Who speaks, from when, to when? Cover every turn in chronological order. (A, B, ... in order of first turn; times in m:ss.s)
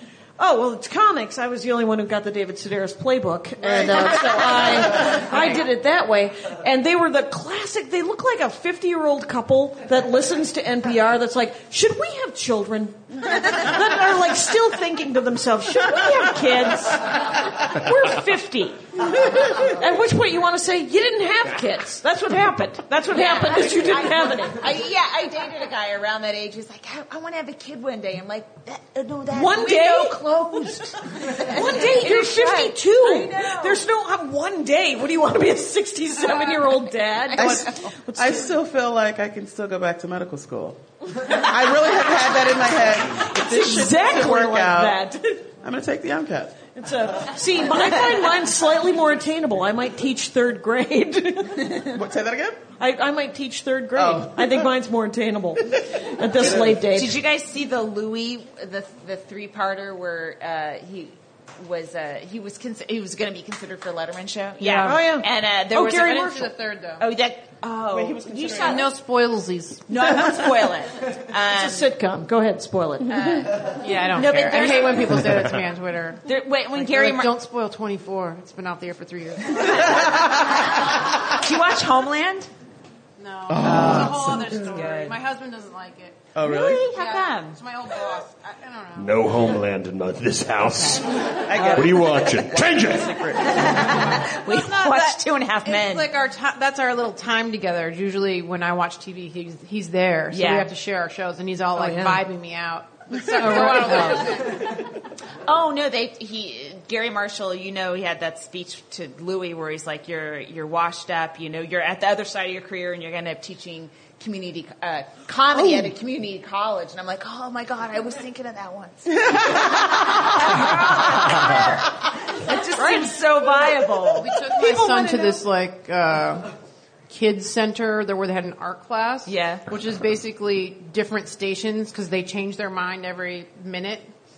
0:00.4-0:18.8 A
0:19.5-0:24.7 A
0:23.1-0:33.8 B
0:29.3-0:38.5 A
0:37.3-0:37.7 B
0:37.4-0:45.0 C
0:43.2-0:45.5 A
0:45.6-0:46.6 C
0:46.7-0:51.9 A
0:51.8-0:52.6 C
0:52.8-0:57.2 A
0:54.0-0:54.7 C
0:56.4-0:56.8 C
0:56.5-1:08.9 B
1:04.6-1:05.0 D
1:04.8-1:05.3 A
1:05.7-1:07.0 D
1:07.9-1:08.9 C
1:08.6-1:10.6 D
1:09.9-1:11.9 B
1:11.5-1:13.4 A
1:13.1-1:15.3 B
1:13.6-1:20.4 D
1:16.3-1:17.3 B
1:21.3-1:22.5 B
1:23.2-1:26.3 D
1:23.5-1:24.2 E
1:23.5-1:24.6 C
1:24.6-1:25.2 B
1:26.4-1:26.8 C
1:26.4-1:27.6 B
1:26.8-1:29.3 D
1:29.0-1:33.4 E
1:31.3-1:34.0 C
1:33.6-1:36.1 B
1:34.5-1:44.6 D
1:40.3-1:40.7 B
1:41.8-1:42.2 A
1:43.5-1:44.5 B
1:45.4-2:04.3 B
2:02.8-2:03.1 A
2:04.2-2:06.5 D
2:04.5-2:05.4 A
2:07.1-2:14.1 D
2:09.3-2:09.6 B